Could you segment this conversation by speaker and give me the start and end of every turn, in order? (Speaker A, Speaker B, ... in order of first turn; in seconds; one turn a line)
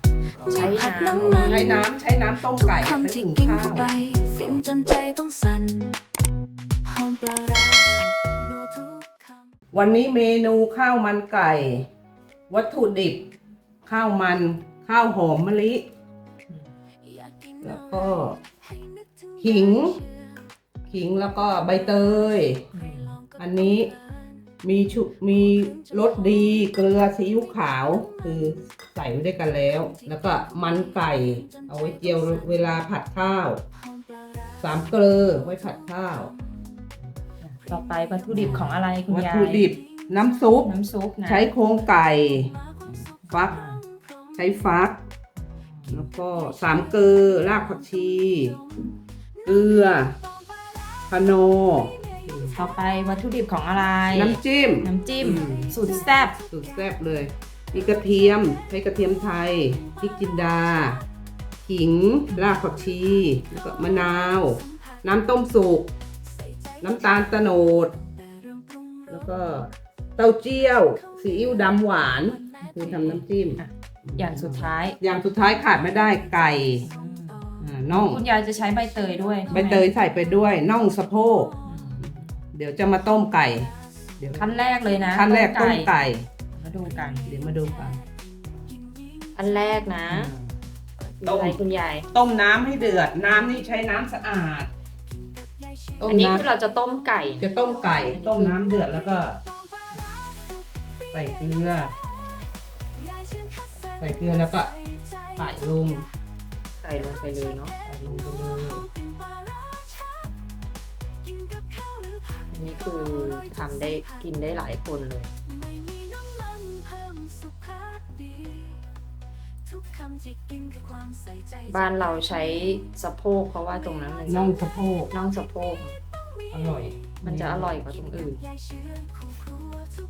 Speaker A: 0.5-1.4
Speaker B: 0.6-1.5
Speaker C: 1.1-3.9
Speaker B: 3.8-5.9
Speaker B: 7.0-9.2
Speaker C: 9.7-11.9
Speaker C: 12.5-13.2
Speaker C: 13.8-15.9
Speaker C: 17.6-18.4
Speaker C: 19.4-20.0
Speaker C: 20.9-22.7
Speaker A: 22.7-23.2
Speaker C: 23.4-23.9
Speaker C: 24.6-33.6
Speaker C: 34.6-36.3
Speaker A: 37.6-39.6
Speaker C: 38.3-40.7
Speaker A: 40.6-41.5
Speaker C: 41.2-42.6
Speaker C: 43.3-43.7
Speaker A: 43.5-43.8
Speaker C: 44.4-45.0
Speaker C: 45.9-48.6
Speaker C: 49.4-50.2
Speaker C: 51.1-52.6
Speaker A: 52.5-56.4
Speaker C: 54.1-55.7
Speaker C: 56.5-61.0
Speaker C: 61.6-65.9
Speaker C: 66.8-67.9
Speaker C: 69.1-76.9
Speaker A: 72.7-75.0
Speaker A: 76.8-79.8
Speaker C: 77.6-78.2
Speaker C: 79.5-84.5
Speaker A: 81.7-82.3
Speaker A: 84.3-85.9
Speaker C: 85.1-86.3
Speaker A: 86.5-87.3
Speaker C: 87.2-88.0
Speaker A: 89.3-90.3
Speaker C: 90.1-90.5
Speaker A: 91.2-92.1
Speaker C: 91.2-91.6
Speaker C: 92.1-94.7
Speaker C: 96.0-96.5
Speaker A: 96.0-97.5
Speaker C: 97.4-99.4
Speaker A: 98.1-98.5
Speaker C: 101.1-101.9
Speaker C: 104.0-104.7
Speaker C: 105.3-106.0
Speaker A: 106.8-107.8
Speaker C: 107.8-108.9
Speaker B: 111.8-112.4
Speaker A: 112.5-115.3
Speaker B: 115.7-118.8
Speaker B: 119.8-121.6
Speaker A: 121.7-124.6
Speaker C: 124.3-125.1
Speaker A: 125.1-126.0
Speaker C: 126.5-127.8
Speaker A: 127.2-128.5
Speaker B: 128.6-129.9